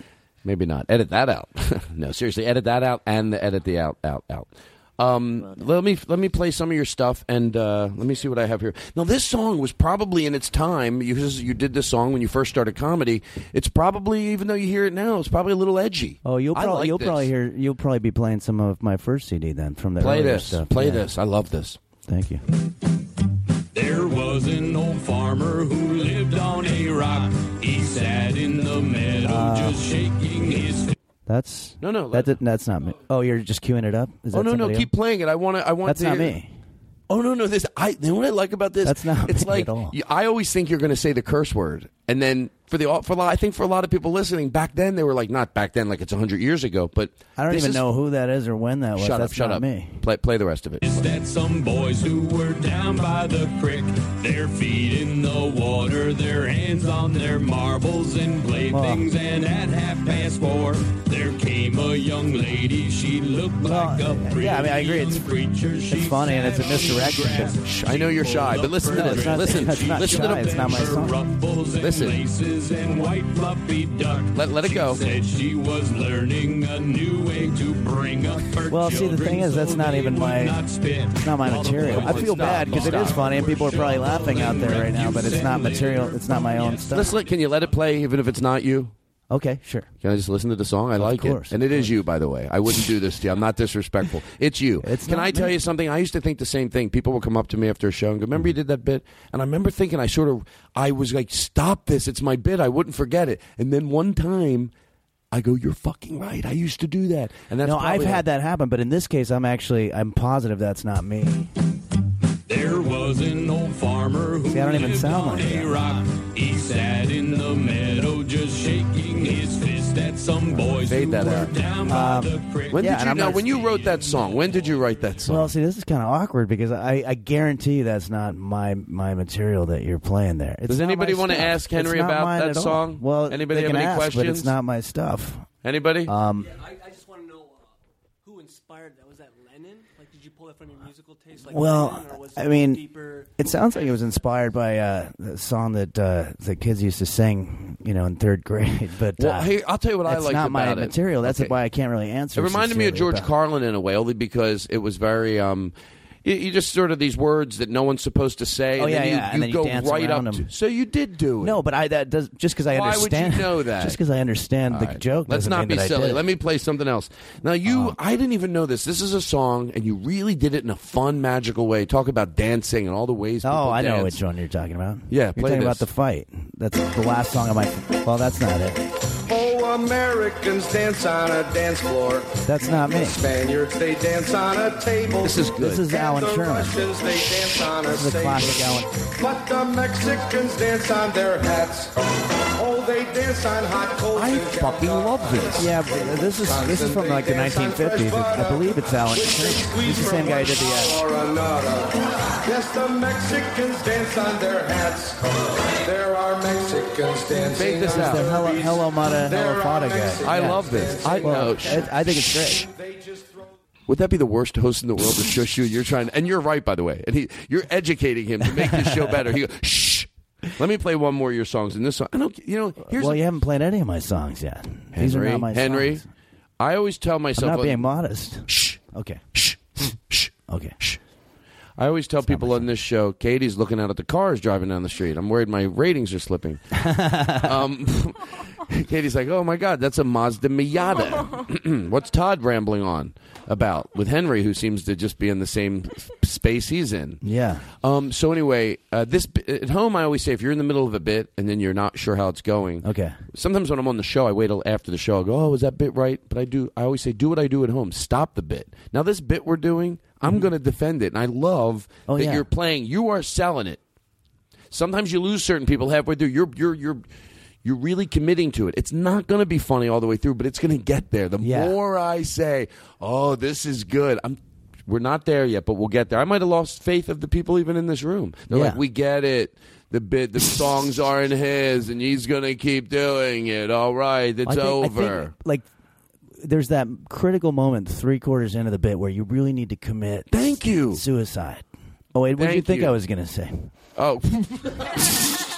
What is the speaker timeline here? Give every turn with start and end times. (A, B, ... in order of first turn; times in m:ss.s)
0:00.4-0:17.3 A
0:16.2-0:21.1 B
0:20.0-0:21.8 A
0:22.1-0:22.4 B
0:23.7-0:30.9 C
0:29.2-0:29.8 B
0:31.2-0:34.9 B
0:31.8-0:32.4 A
0:34.3-0:36.4 A
0:35.8-0:36.5 B
0:37.1-0:47.8 A
0:38.8-0:39.9 B
0:47.4-0:50.0 B
0:49.0-0:51.1 A
0:50.8-1:26.3 C
0:58.7-0:59.1 B
1:03.6-1:05.3 B
1:05.8-1:07.6 B
1:07.6-1:10.7 A
1:08.9-1:11.1 B
1:11.8-1:12.2 A
1:14.3-1:15.1 A
1:18.7-1:20.6 B
1:21.2-1:27.2 B
1:21.4-1:23.9 A
1:26.9-1:28.9 A
1:29.3-1:29.9 B
1:30.0-1:44.7 A
1:31.0-1:31.9 B
1:34.8-1:35.5 B
1:45.3-1:48.2 A
1:47.6-1:51.5 B
1:52.5-2:03.8 C
1:54.5-1:55.8 B
2:00.8-2:01.5 A
2:01.8-2:03.5 B
2:02.7-2:05.5 A
2:05.2-2:15.4 B
2:10.7-2:14.5 A
2:15.6-2:16.1 A
2:16.1-2:16.5 B
2:16.3-2:24.2 D
2:21.4-2:29.5 B
2:29.2-2:31.5 A
2:30.0-2:33.3 B
2:32.3-2:41.6 A
2:38.8-2:40.5 B
2:41.4-2:46.2 B
2:42.7-2:44.0 A
2:44.7-2:54.2 A
2:47.7-2:48.0 B
2:53.4-2:58.8 B
2:55.1-2:55.8 A
2:59.3-3:11.9 E
3:02.4-3:03.2 B
3:05.2-3:05.8 A
3:05.6-3:06.8 B
3:07.8-3:08.9 B
3:12.6-3:33.5 E
3:14.1-3:15.7 A
3:15.6-3:21.0 B
3:27.5-3:28.2 A
3:27.9-3:30.7 B
3:30.2-3:31.9 A
3:31.2-3:32.7 B
3:33.9-3:43.2 A
3:38.4-3:39.4 B
3:42.8-3:46.1 B
3:44.9-3:46.0 A
3:46.6-3:47.9 A
3:47.4-3:49.2 B
3:48.5-3:48.8 A
3:49.3-3:51.0 A
3:50.5-3:50.8 B
3:51.8-3:56.6 A
3:52.2-3:52.7 B
3:56.7-3:57.6 B
3:57.4-4:07.2 A
4:07.2-4:07.7 B
4:07.8-4:23.8 A
4:12.8-4:13.2 B
4:22.1-4:22.4 B
4:24.7-4:27.0 A
4:27.6-4:45.3 A
4:31.4-4:31.8 B
4:38.5-4:38.8 B
4:44.4-4:45.6 B
4:46.4-4:53.7 B
4:50.3-4:51.0 A
4:52.4-4:52.9 A
4:54.0-4:55.1 A